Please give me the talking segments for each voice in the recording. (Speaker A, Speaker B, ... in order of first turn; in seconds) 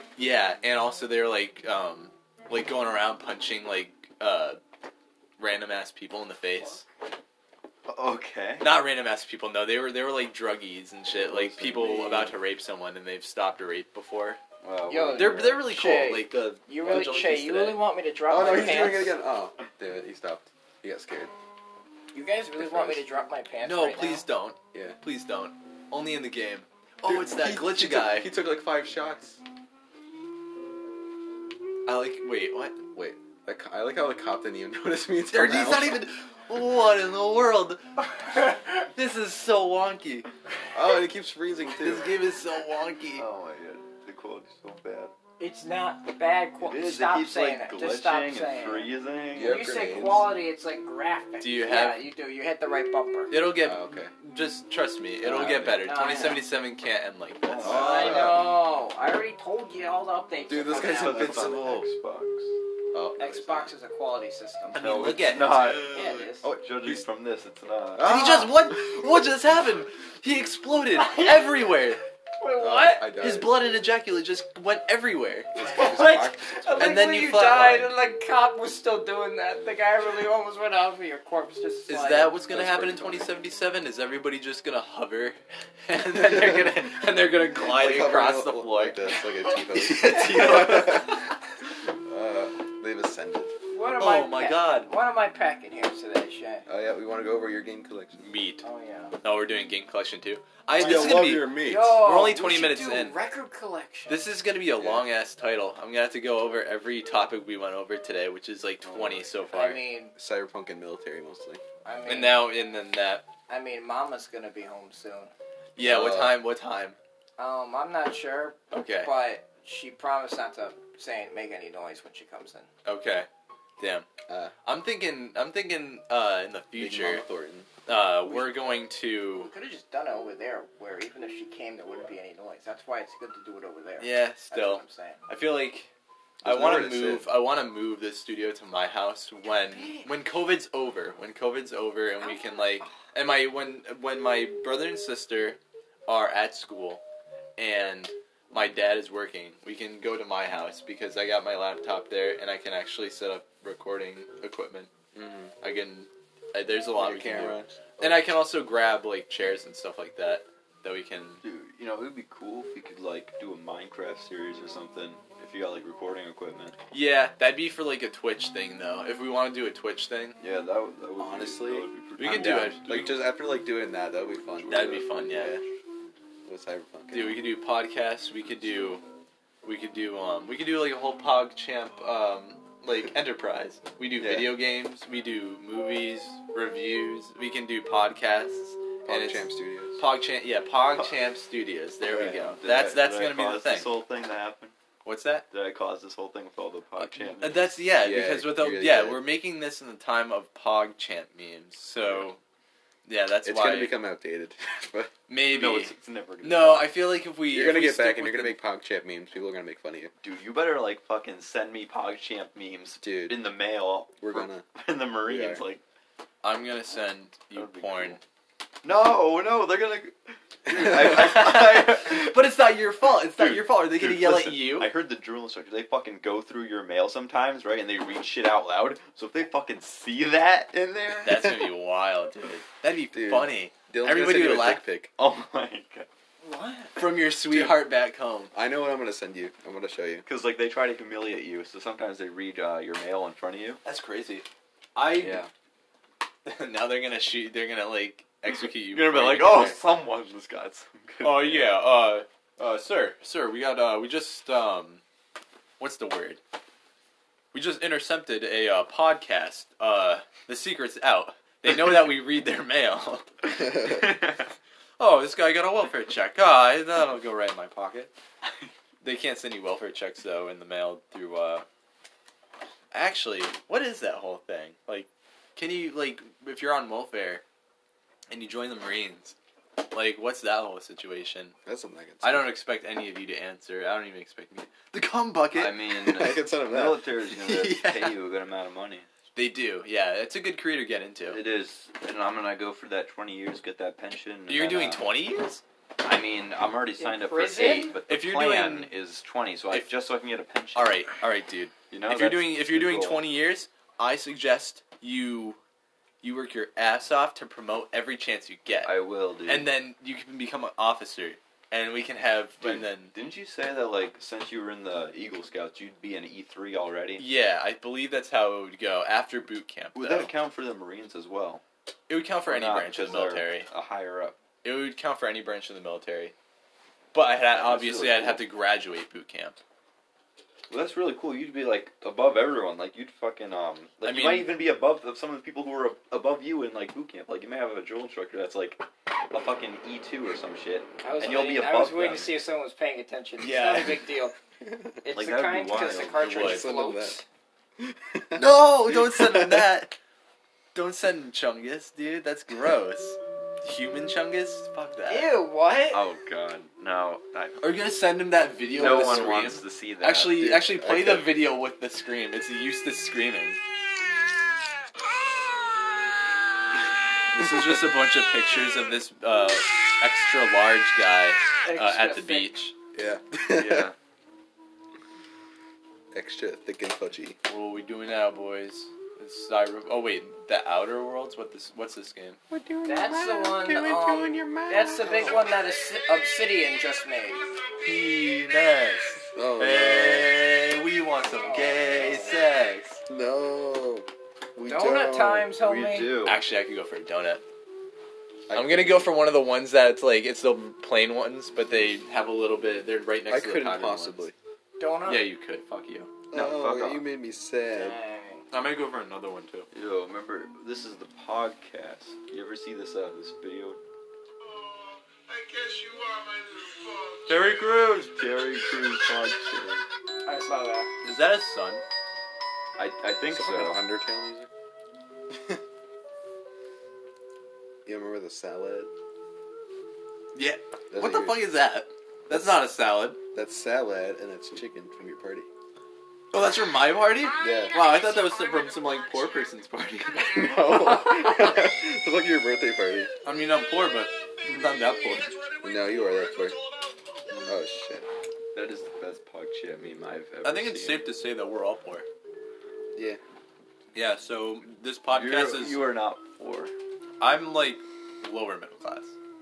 Speaker A: 0.2-4.6, 5.4-6.8, 8.6-14.4, 15.1-17.8, 23.6-28.3, 31.9-32.8, 35.3-40.3, 41.8-43.2, 51.4-52.0, 53.3-58.1, 64.7-65.9, 68.0-72.0, 73.2-75.5, 76.8-77.9, 81.9-89.0, 89.7-91.0, 94.0-94.9, 98.2-98.6, 99.2-103.2, 104.1-109.8, 112.1-113.2, 115.8-117.0, 118.7-119.1, 122.8-123.3, 123.8-124.0, 124.6-127.2, 127.8-129.5, 134.0-135.9, 136.4-147.0, 147.6-154.9, 155.6-161.4, 166.9-170.4, 172.2-173.2, 174.6-175.6, 177.1-179.0, 179.6-193.9, 195.0-195.4, 197.0-202.4, 203.1-203.9, 205.3-208.6, 216.4-218.2, 220.7-224.9, 231.2-234.8, 237.0-238.5, 243.8-245.4, 246.4-249.8, 251.2-255.0, 255.8-256.4, 257.5-263.2, 265.0-268.1, 269.0-271.6, 272.9-277.4, 278.3-279.3, 279.9-281.5, 282.2-285.9, 287.3-288.1, 289.3-291.4, 294.5-295.6, 298.1-298.9, 300.7-305.6, 306.2-308.9, 309.4-313.1, 317.2-320.3, 322.1-323.7, 324.6-326.3, 327.1-329.6, 334.0-334.6, 343.4-344.0, 346.2-346.6, 348.4-349.9, 350.7-355.3, 357.6-363.6, 367.3-372.7, 377.5-382.4, 387.8-393.0, 396.2-397.4, 398.5-404.2, 405.1-406.1, 408.5-409.7, 421.0-421.8, 430.3-433.2, 436.3-441.1, 443.2-445.4, 450.4-452.1, 453.9-455.8, 457.2-459.1
Speaker B: 7.9-8.7, 14.6-15.6, 43.1-45.1, 46.6-49.6, 55.2-55.8, 57.4-58.3, 60.7-62.5, 64.7-68.1, 90.0-90.9, 161.4-166.8, 170.4-173.1, 192.1-194.7, 195.5-197.7, 205.5-206.9, 210.2-215.8, 217.5-218.2, 218.8-222.4, 223.3-231.7, 235.2-236.1, 240.2-243.8, 248.9-251.8, 263.7-264.4, 285.5-289.1, 291.3-295.0, 296.0-301.0, 301.9-303.2, 308.8-309.7, 312.6-317.2, 319.9-321.6, 322.5-324.3, 327.5-328.4, 330.7-342.3, 345.1-346.6, 355.9-357.6, 358.7-360.4, 373.5-373.9, 395.6-396.4, 406.3-407.0, 409.7-413.8, 417.3-419.8, 422.8-423.8, 448.5-451.1, 455.1-456.7
Speaker C: 11.1-12.3, 18.3-21.3, 22.6-23.0, 24.7-25.0, 27.0-29.4, 32.9-36.0, 40.7-42.1, 49.3-50.3, 53.6-54.1, 57.6-58.5, 60.5-61.9, 62.9-63.7, 67.9-68.8, 72.6-73.5, 75.5-77.0, 82.5-83.3, 86.1-86.8, 87.5-91.2, 91.8-93.5, 96.7-98.2, 100.7-102.0, 104.8-105.1, 110.2-111.6, 115.8-116.4, 124.3-124.5, 126.8-127.7, 136.4-137.3, 155.1-155.5, 156.9-158.2, 171.2-175.6, 176.4-177.4, 184.2-184.6, 189.1-190.0, 198.0-199.2, 203.4-205.1, 207.5-210.1, 213.0-213.4, 214.2-214.7, 215.2-215.6, 233.1-235.1, 237.4-237.8, 238.5-240.2, 281.6-282.5, 286.0-287.1, 344.6-344.9, 346.4-347.2, 347.8-349.7, 360.4-361.4, 372.9-373.9, 376.1-377.4, 382.5-385.5, 389.3-390.3, 393.1-395.5, 398.5-399.1, 403.3-404.3, 406.3-408.0, 423.3-424.5, 425.3-425.6, 427.9-428.9, 430.9-431.4, 433.3-435.5, 437.4-437.8, 440.2-443.1, 445.6-446.6, 447.4-448.1, 452.9-453.2
Speaker D: 14.9-19.1, 22.1-24.2, 45.4-53.3, 55.7-56.4, 57.6-61.5, 63.2-64.8, 65.8-66.5, 71.0-71.4, 72.4-73.2, 75.7-82.3, 93.7-96.6, 98.6-99.2, 100.8-104.2, 109.5-110.1, 111.8-112.5, 113.5-115.3, 117.4-122.7, 129.3-135.2, 139.6-140.1, 142.2-142.9, 236.4-237.0, 297.0-297.9, 341.0-344.3, 345.0-347.2, 355.1-356.0, 371.6-372.5, 382.9-387.4, 391.4-392.3, 394.7-396.1, 404.8-405.2, 407.7-408.4, 420.2-420.9